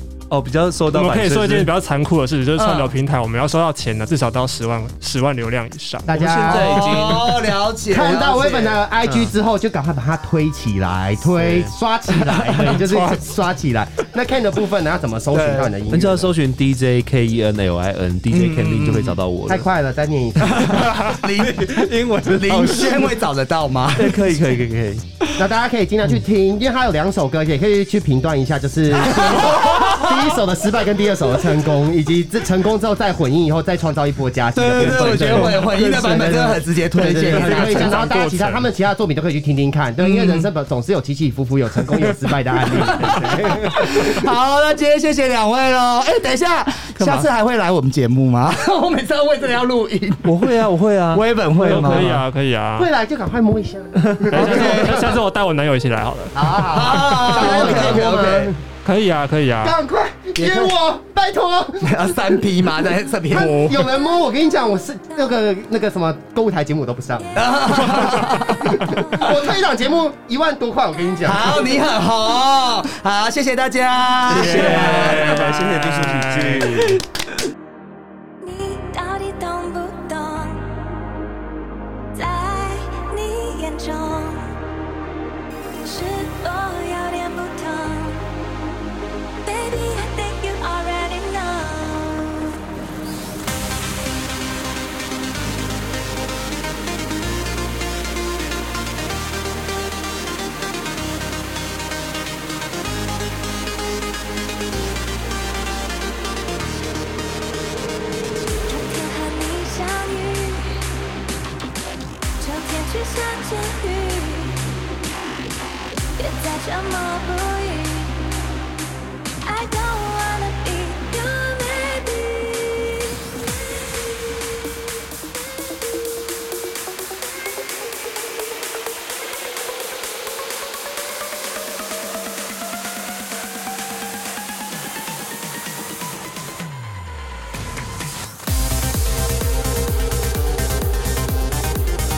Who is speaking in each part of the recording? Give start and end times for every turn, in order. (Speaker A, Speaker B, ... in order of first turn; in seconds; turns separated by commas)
Speaker A: 0.3-1.7, Speaker B: 0.9-6.0, Speaker C: 2.5-2.9, Speaker D: 6.0-7.0, Speaker A: 6.1-7.5, Speaker C: 6.5-8.8, Speaker D: 7.9-16.3, Speaker A: 11.4-11.7, Speaker C: 12.4-12.7, Speaker C: 15.3-15.7, Speaker A: 15.9-19.7, Speaker C: 18.3-19.2, Speaker D: 19.5-21.0, Speaker A: 20.5-23.2, Speaker C: 20.6-24.5, Speaker A: 23.9-25.0, Speaker D: 25.4-44.2, Speaker C: 29.0-30.1, Speaker C: 34.5-38.1, Speaker A: 34.8-35.6, Speaker B: 37.3-38.6, Speaker C: 40.0-40.5, Speaker C: 42.7-50.5, Speaker A: 47.0-47.2, Speaker A: 50.2-52.2, Speaker C: 51.1-52.2, Speaker B: 51.6-52.9, Speaker D: 52.8-55.2, Speaker A: 54.0-54.3, Speaker B: 54.3-57.6, Speaker C: 54.3-55.0, Speaker C: 56.3-58.5, Speaker D: 56.9-58.6, Speaker B: 58.8-59.8, Speaker D: 59.6-62.4, Speaker C: 60.4-60.7, Speaker C: 61.8-63.8, Speaker D: 63.3-68.0, Speaker C: 67.3-69.3, Speaker E: 67.8-69.3, Speaker D: 68.7-71.7, Speaker C: 71.2-75.5, Speaker A: 74.2-77.0, Speaker B: 74.9-76.7, Speaker E: 78.4-80.7, Speaker E: 82.1-84.5, Speaker E: 85.8-88.2, Speaker E: 89.4-92.5, Speaker E: 108.6-110.8, Speaker E: 112.4-114.7, Speaker E: 116.2-118.2, Speaker E: 119.4-123.0